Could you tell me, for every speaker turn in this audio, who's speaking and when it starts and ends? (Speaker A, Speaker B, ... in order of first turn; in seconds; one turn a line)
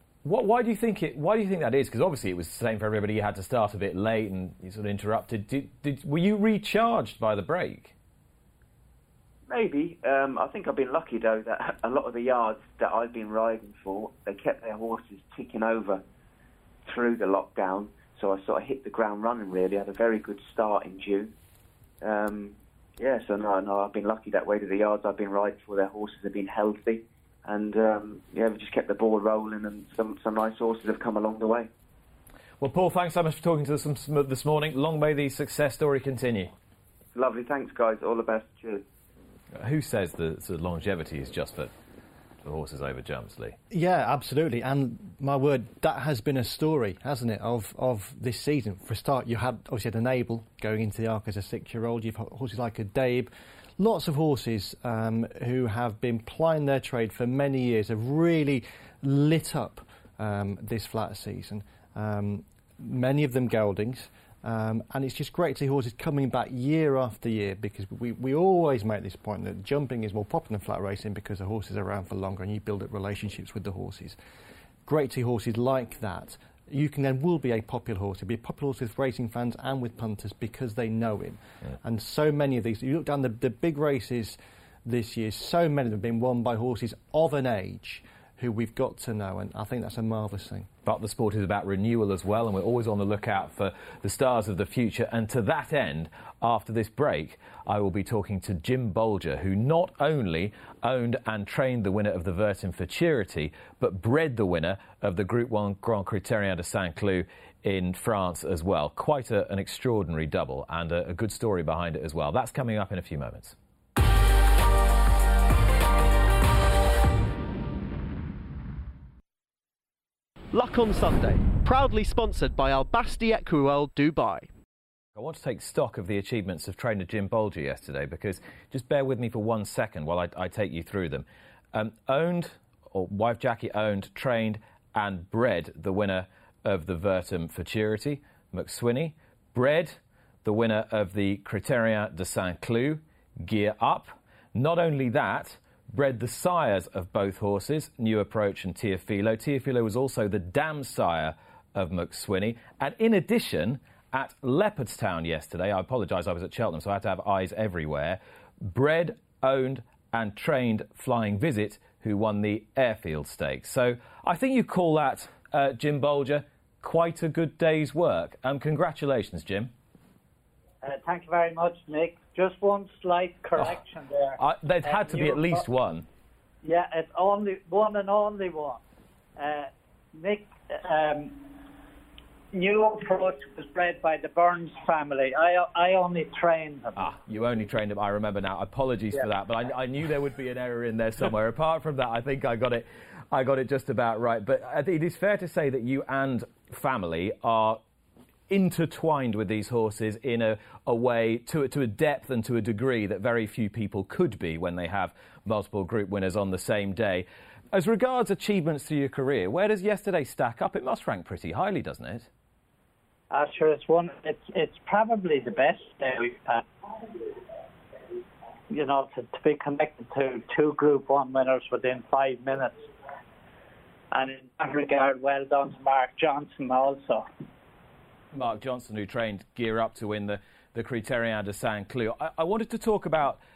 Speaker A: 0.2-7.9
Speaker B: 9.5-16.0
Speaker B: 16.9-21.3
Speaker B: 22.0-31.7
Speaker A: 32.6-36.5
Speaker B: 37.1-38.8
Speaker A: 39.5-41.7
Speaker A: 42.4-43.6
Speaker C: 43.7-74.2
Speaker C: 74.8-90.7
Speaker A: 90.8-113.5
Speaker D: 120.5-124.5
Speaker A: 125.2-169.7
Speaker E: 170.8-175.6
Speaker A: 174.4-176.1
Speaker E: 176.6-178.8
Speaker E: 179.4-181.4
Speaker E: 182.5-187.0
Speaker A: 187.0-197.8
Speaker A: 198.5-212.3
Speaker E: 213.3-216.6
Speaker E: 218.7-222.9
Speaker E: 224.1-227.2
Speaker A: 228.3-233.4